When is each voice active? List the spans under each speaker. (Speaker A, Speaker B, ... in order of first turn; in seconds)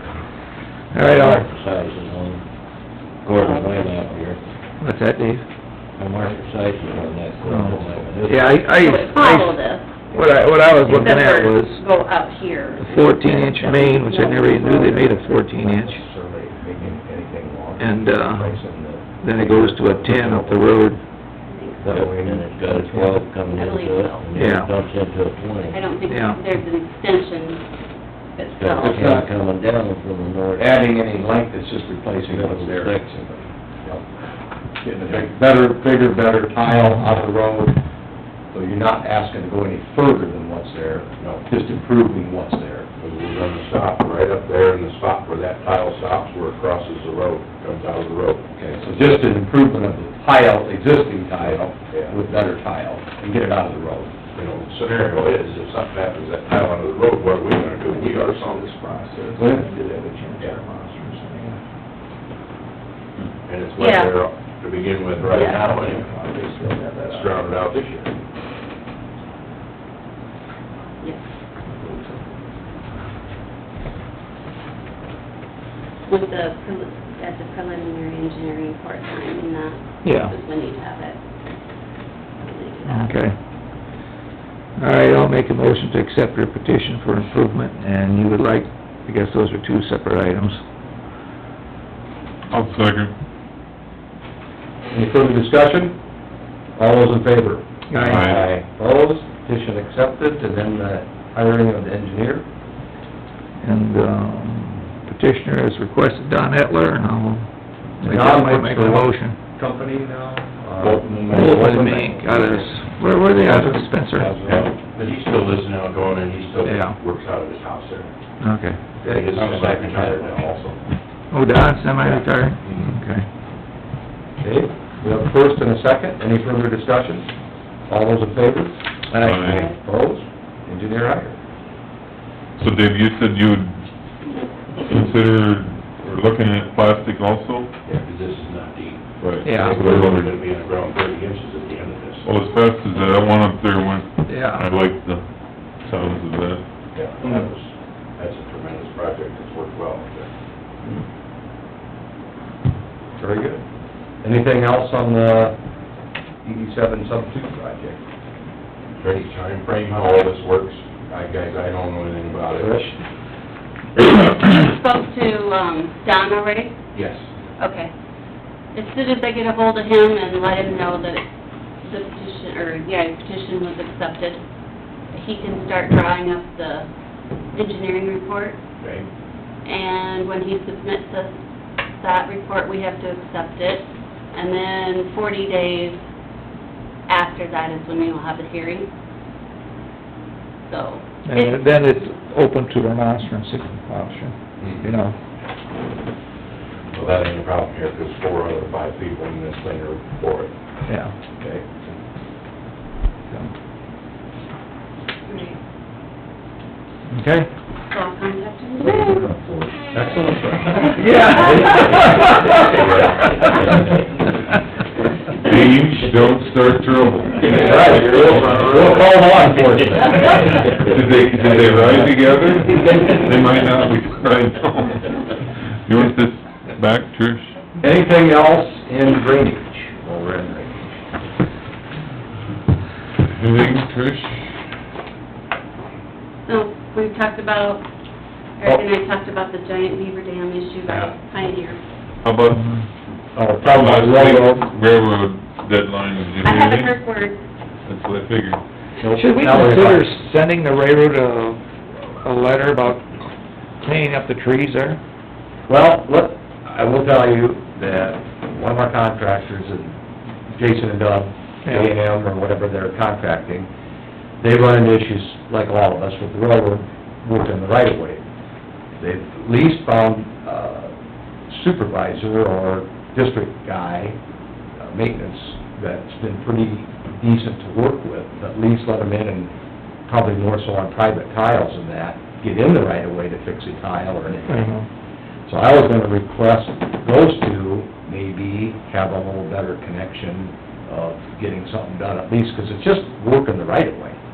Speaker A: 0.9-1.5, 4.8-5.5, 7.5-11.8, 12.8-16.0, 17.8-18.6, 19.1-21.0, 24.4-24.7, 26.1-26.4, 57.9-61.6, 65.3-67.4, 80.0-80.4, 82.9-83.3, 84.8-90.6, 97.9-98.3, 103.6-107.5, 108.0-109.4, 111.3-114.4, 116.7-117.0, 118.4-119.0, 121.3-123.3, 139.4-139.8, 144.3-144.7, 191.3-195.2, 200.9-201.1, 207.1-207.5, 211.0-212.7, 213.3-213.6, 249.1-251.6, 252.2-253.1, 253.8-255.0, 261.7-261.9, 284.5-284.9
Speaker B: 1.0-2.5, 3.2-4.4, 6.0-8.6, 21.8-25.8, 28.6-30.8, 32.3-33.1
Speaker C: 8.3-9.9, 10.8-15.3, 21.5-21.9, 23.4-24.3, 25.7-27.6, 28.4-29.0, 63.8-64.1, 65.3-65.7, 76.1-81.2, 82.4-83.1, 164.0-166.8, 167.6-167.9, 168.7-171.2, 171.8-174.4, 175.1-176.9, 177.5-178.6, 179.7-181.4, 182.0-186.0, 187.1-188.9, 190.7-191.6, 205.3-205.6, 207.9-209.2, 236.5-237.9, 238.6-241.8, 246.4-247.4
Speaker D: 14.7-20.8, 21.9-23.3, 28.8-29.3, 30.6-34.0, 34.8-37.8, 38.5-42.9, 48.6-54.1, 59.4-59.7, 94.9-96.0, 96.8-102.5, 108.0-112.7, 113.4-114.7, 119.1-120.4, 124.4-127.3, 127.9-131.4, 153.2-153.6, 154.2-155.6, 156.4-158.0, 162.6-163.0, 208.8-213.1, 217.4-222.0, 227.8-231.0, 243.3-244.7, 249.0-250.1, 255.7-260.0, 260.5-263.7, 264.4-268.2, 269.0-270.9, 271.5-274.2, 274.8-279.5, 280.1-284.8, 285.5-294.2
Speaker E: 43.0-49.1, 54.4-58.8, 63.5-66.1, 67.0-68.1, 110.8-111.2, 114.4-118.1, 119.1-120.8, 137.9-142.3, 146.9-150.3, 159.0-162.8, 166.9-167.3, 194.6-194.9, 196.9-200.5
Speaker F: 92.5-93.1, 98.0-98.4, 129.2-129.7, 132.6-133.8, 134.8-137.7, 139.2-140.4, 142.2-146.6, 215.4-218.9, 220.8-225.3, 225.9-227.5, 233.3-234.4, 242.2-242.8, 243.7-246.9, 247.9-248.6